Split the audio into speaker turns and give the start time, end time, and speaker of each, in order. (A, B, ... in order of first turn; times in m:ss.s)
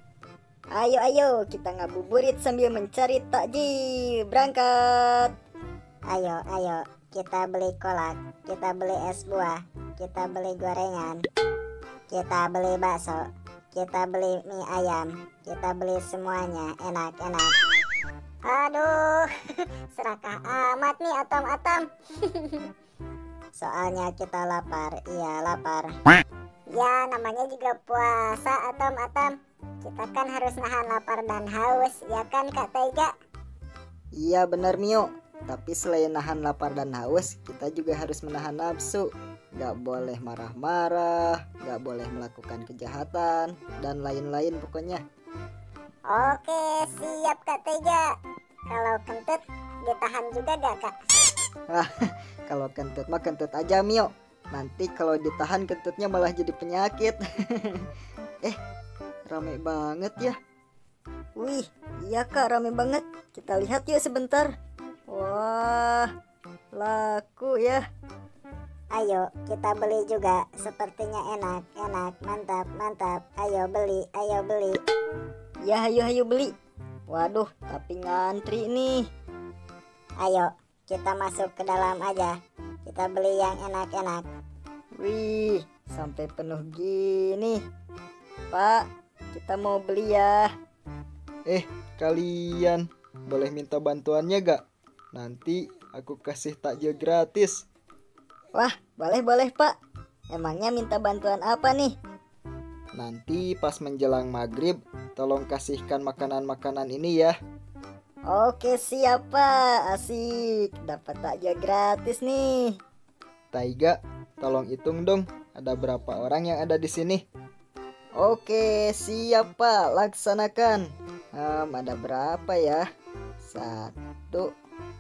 0:00.8-0:03.7 A
0:04.3-0:05.3 A
0:06.1-0:11.2 B
0:12.1-0:13.2 B
0:13.7-0:17.5 B
0:18.5-0:19.3 B
0:19.9-0:22.7 B
0:23.6-0:25.9 B
0:26.7-0:33.1 B
0:34.2-0:45.0 A
0:46.1-0:48.1 B
0:48.7-0:51.0 B
0:52.5-0:57.9 A
0:59.3-1:00.4 A
1:01.4-1:04.5 A
1:05.1-1:06.1 A
1:06.8-1:07.8 A
1:09.0-1:14.8 B
1:15.7-1:16.5 A
1:17.1-1:19.0 A
1:20.2-1:22.3 B
1:22.9-1:24.2 B
1:25.0-1:27.6 A
1:28.5-1:28.8 A
1:29.3-1:30.5 A
1:31.5-1:34.6 C
1:35.1-1:37.6 C
1:38.6-1:39.7 A
1:40.3-1:41.9 A
1:43.0-1:47.3 C
1:48.3-1:52.7 A
1:53.5-1:57.2 C
1:58.2-2:00.8 A
2:01.4-2:02.8 A
2:03.4-2:04.5 A